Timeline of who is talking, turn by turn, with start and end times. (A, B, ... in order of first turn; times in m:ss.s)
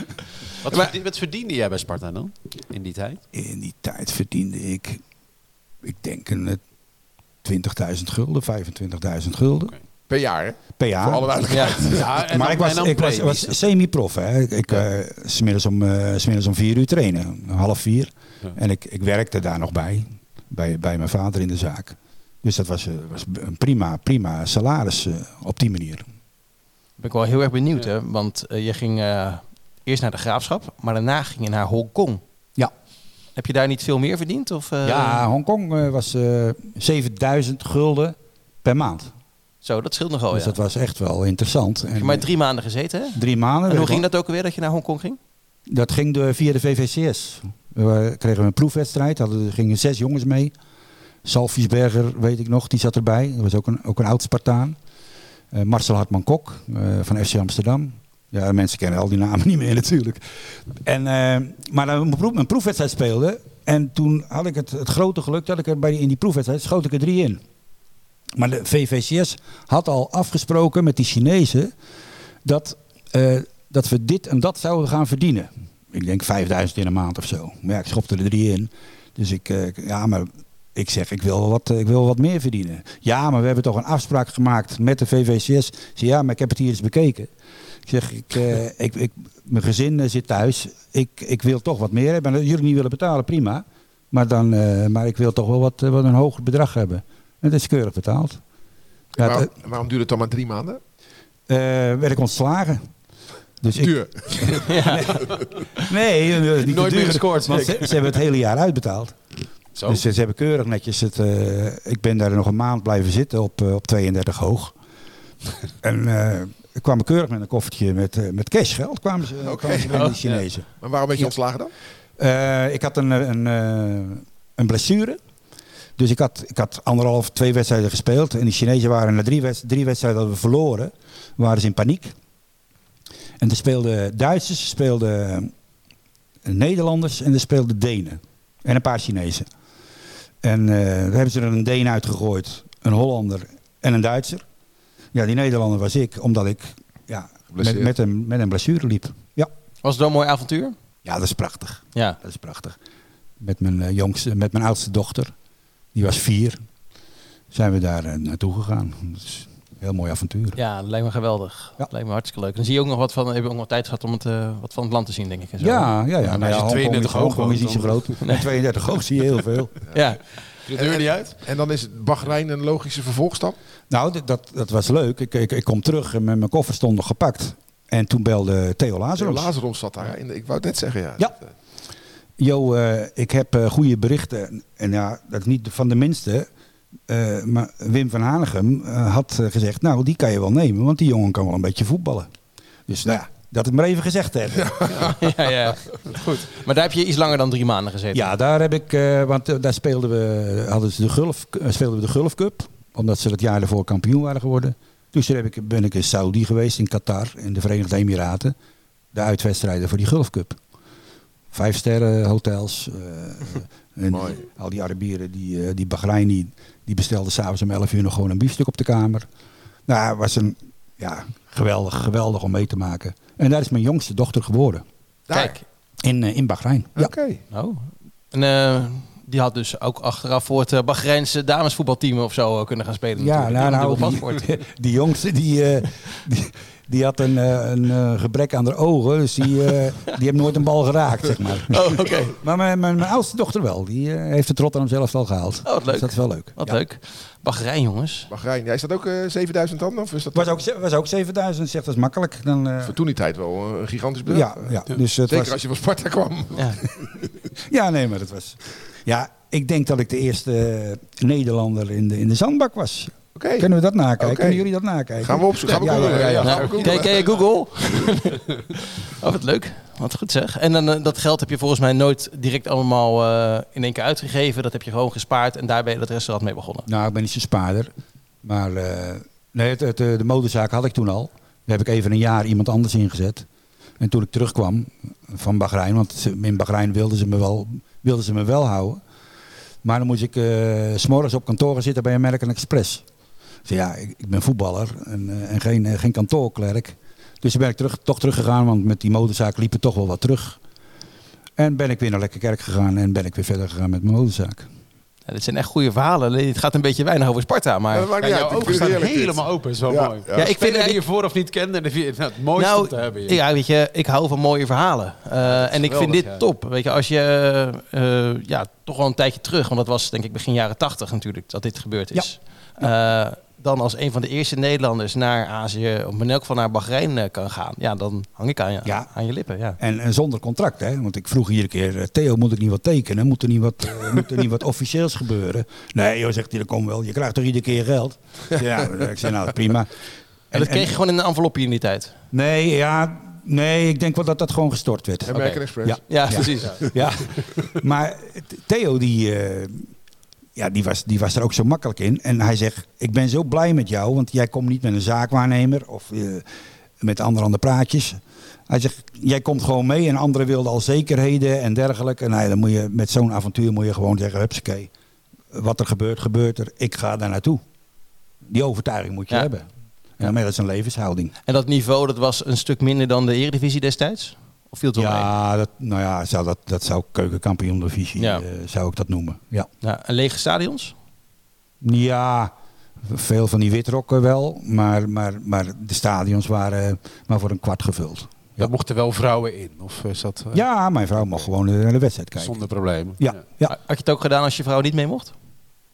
0:00.6-0:03.2 A
0:03.3-0:05.0 B
0:05.8-0:06.6 B
0:07.4-0:09.7 B
0:10.1-0:12.1 C
0:10.8-0:26.0 B
0:11.5-0:11.8 D
0:11.8-0:13.6 A
0:27.0-0:32.2 D
0:33.4-0:35.2 D
0:34.8-0:39.1 B
0:39.6-0:40.6 D
0:40.3-0:42.2 B
0:41.9-0:45.2 D
0:43.1-0:44.0 B
0:45.7-0:50.5 B
0:51.2-0:54.8 B
0:55.5-1:07.4 B
1:08.3-1:11.7 B
1:12.4-1:27.3 B
1:27.8-1:38.4 B
1:39.1-1:39.5 B
1:39.2-1:40.8 C
1:41.5-1:42.9 B
1:43.6-1:49.2 B
1:43.8-1:44.6 C
1:44.6-1:45.2 D
1:46.6-1:48.1 A
1:49.8-1:50.0 A
1:49.8-1:54.8 B
1:55.8-2:01.3 B
1:59.4-2:00.2 C
2:00.8-2:01.7 C
2:02.2-2:05.2 B
2:06.0-2:12.1 B
2:13.4-2:15.5 B
2:16.4-2:19.5 B
2:20.4-2:24.4 B
2:25.1-2:29.5 B
2:27.5-2:27.9 C
2:29.8-2:30.8 D
2:31.0-2:32.8 B
2:33.4-2:35.3 B
2:35.9-2:36.6 B
2:37.5-2:40.6 B
2:40.6-2:46.4 D
2:45.6-2:49.8 B
2:46.3-2:48.2 A
2:49.9-2:50.2 D
2:50.7-2:51.3 A
2:50.8-2:53.6 C
2:50.9-2:51.2 D
2:53.9-2:59.5 B
2:59.2-3:01.5 C
3:02.4-3:06.5 B
3:07.1-3:12.3 B
3:12.9-3:15.2 B
3:15.0-3:18.3 D
3:18.1-3:28.5 B
3:29.1-3:30.6 B
3:31.5-3:39.2 B
3:34.1-3:34.4 C
3:39.9-3:44.8 B
3:45.3-3:45.6 C
3:45.3-3:45.6 D
3:46.0-3:47.1 B
3:47.0-3:47.4 C
3:47.5-3:54.4 D
3:53.2-4:06.8 B
4:01.7-4:02.4 D
4:05.6-4:08.3 D
4:08.3-4:10.5 C
4:10.3-4:13.0 B
4:12.8-4:14.6 C
4:14.3-4:15.6 B
4:15.3-4:17.3 C
4:17.6-4:26.8 B
4:23.4-4:23.7 C
4:24.2-4:24.6 C
4:25.2-4:27.3 C
4:25.7-4:27.1 A
4:26.4-4:36.9 D
4:36.9-4:37.9 B
4:38.4-4:43.4 B
4:44.0-4:49.0 B
4:49.8-4:53.0 B
4:53.6-5:00.6 B
5:01.6-5:04.7 B
5:05.3-5:08.1 D
5:07.9-5:10.4 C
5:08.2-5:13.4 A
5:10.4-5:11.0 D
5:12.6-5:29.8 D
5:15.4-5:16.4 A
5:29.8-5:39.9 B
5:40.5-5:40.9 B
5:40.5-5:42.1 D
5:42.3-5:49.9 B
5:45.3-5:46.8 C
5:45.3-5:46.9 D
5:50.6-5:56.5 B
5:57.0-6:04.9 B
6:05.5-6:07.6 B
6:08.4-6:09.7 B
6:10.2-6:11.3 B
6:11.5-6:15.3 D
6:15.0-6:19.7 B
6:18.2-6:18.4 D
6:19.8-6:20.9 D
6:21.8-6:22.5 B
6:23.0-6:28.7 B
6:28.6-6:30.6 A
6:30.5-6:32.6 B
6:32.4-6:33.4 A
6:33.2-6:33.7 B
6:33.6-6:35.3 D